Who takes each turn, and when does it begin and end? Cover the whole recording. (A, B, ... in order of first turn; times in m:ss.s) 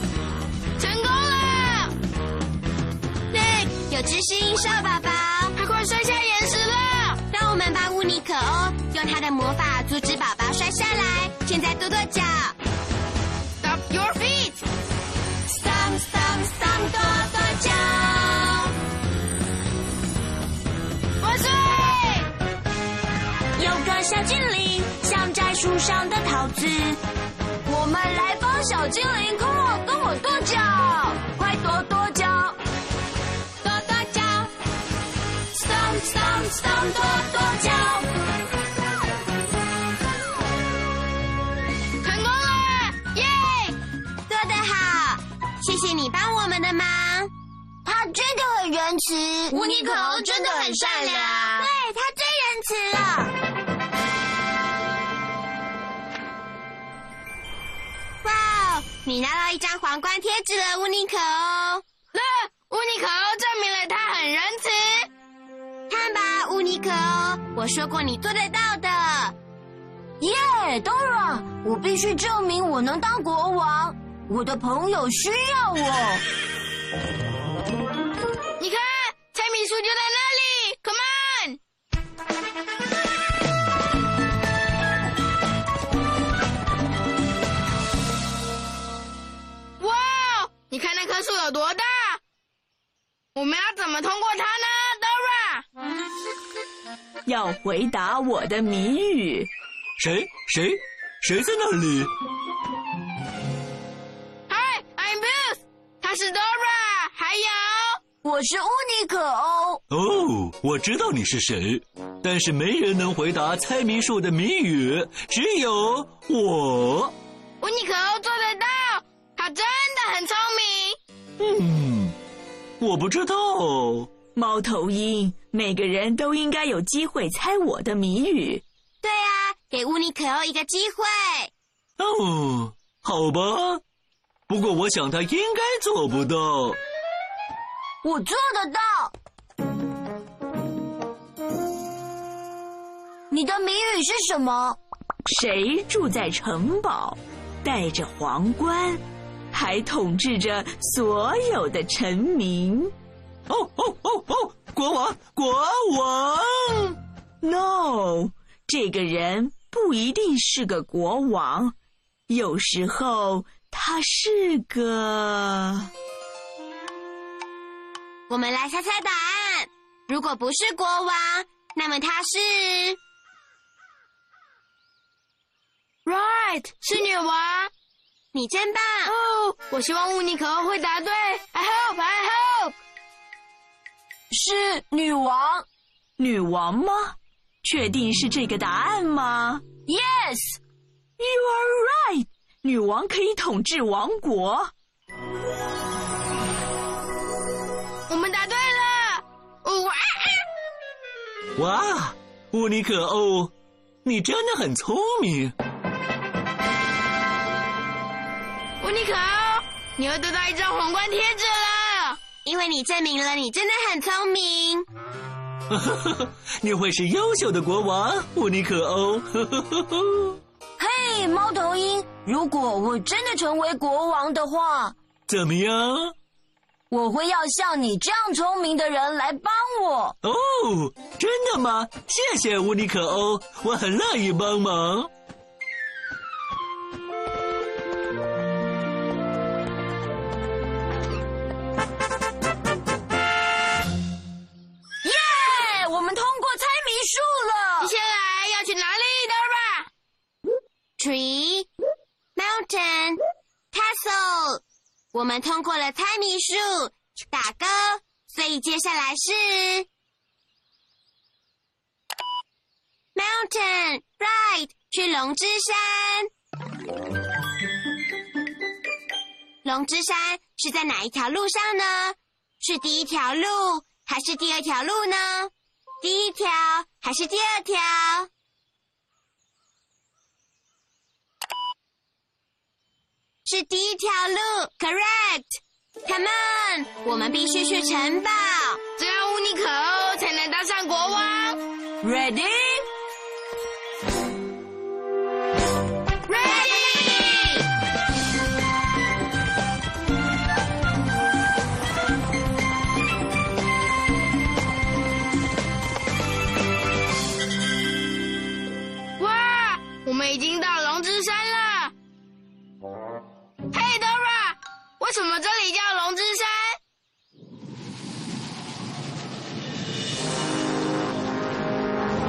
0:00.8-0:01.9 A
0:03.3-0:05.5 B
0:05.6-0:07.2 A
0:07.3-0:12.6 B
0:13.6-0:14.6 A
0:15.5-0:18.7 B
0:21.2-0:22.3 A
0:23.6-0:27.0 B
0:27.6-0:32.6 C
0:33.6-0:34.5 B
0:35.5-0:38.0 B
0:37.0-0:38.0 C
0:42.0-0:43.8 A
0:44.3-0:47.3 B
0:47.8-0:51.7 C
0:49.5-0:53.3 B
0:58.2-1:01.8 B
1:02.1-1:05.1 A
1:05.9-1:09.4 B
1:10.2-1:16.2 C
1:18.6-1:21.6 A
1:29.8-1:32.2 A
1:33.3-1:35.6 A
1:37.2-1:39.5 D
1:40.0-1:42.1 E
1:44.5-1:48.0 A
1:48.2-1:49.8 C
1:49.9-1:57.1 E
1:57.6-2:01.0 A
2:01.4-2:02.2 E
2:02.8-2:04.1 E
2:04.3-2:08.6 D
2:09.0-2:11.5 B
2:12.0-2:13.8 E
2:14.5-2:16.8 E
2:18.0-2:19.1 C
2:23.3-2:24.8 C
2:25.2-2:32.9 D
2:33.5-2:37.0 E
2:37.4-2:41.7 D
2:42.3-2:45.9 D
2:48.3-2:53.0 B
2:56.1-2:57.7 A
2:58.3-2:59.1 B
2:59.1-3:02.8 A
3:04.3-3:05.6 C
3:06.2-3:09.6 D
3:09.9-3:10.6 C
3:11.2-3:14.7 D
3:18.1-3:20.4 A
3:21.6-3:23.5 E
3:24.0-3:25.5 E
3:28.8-3:32.2 A
3:32.4-3:34.8 B
3:35.7-3:40.4 E
3:40.8-3:45.0 C
3:45.3-3:46.1 E
3:46.9-3:50.2 C
3:50.2-3:55.1 E
4:05.0-4:07.9 C
4:07.8-4:09.9 A
4:11.0-4:11.7 B
4:12.4-4:13.2 B
4:13.7-4:19.9 B
4:23.1-4:26.3 B
4:29.6-4:38.3 B
4:43.4-4:48.8 B
4:49.0-4:51.6 A
4:52.0-4:52.9 C
4:56.3-4:57.6 A
5:09.2-5:11.9 A
5:13.7-5:16.8 A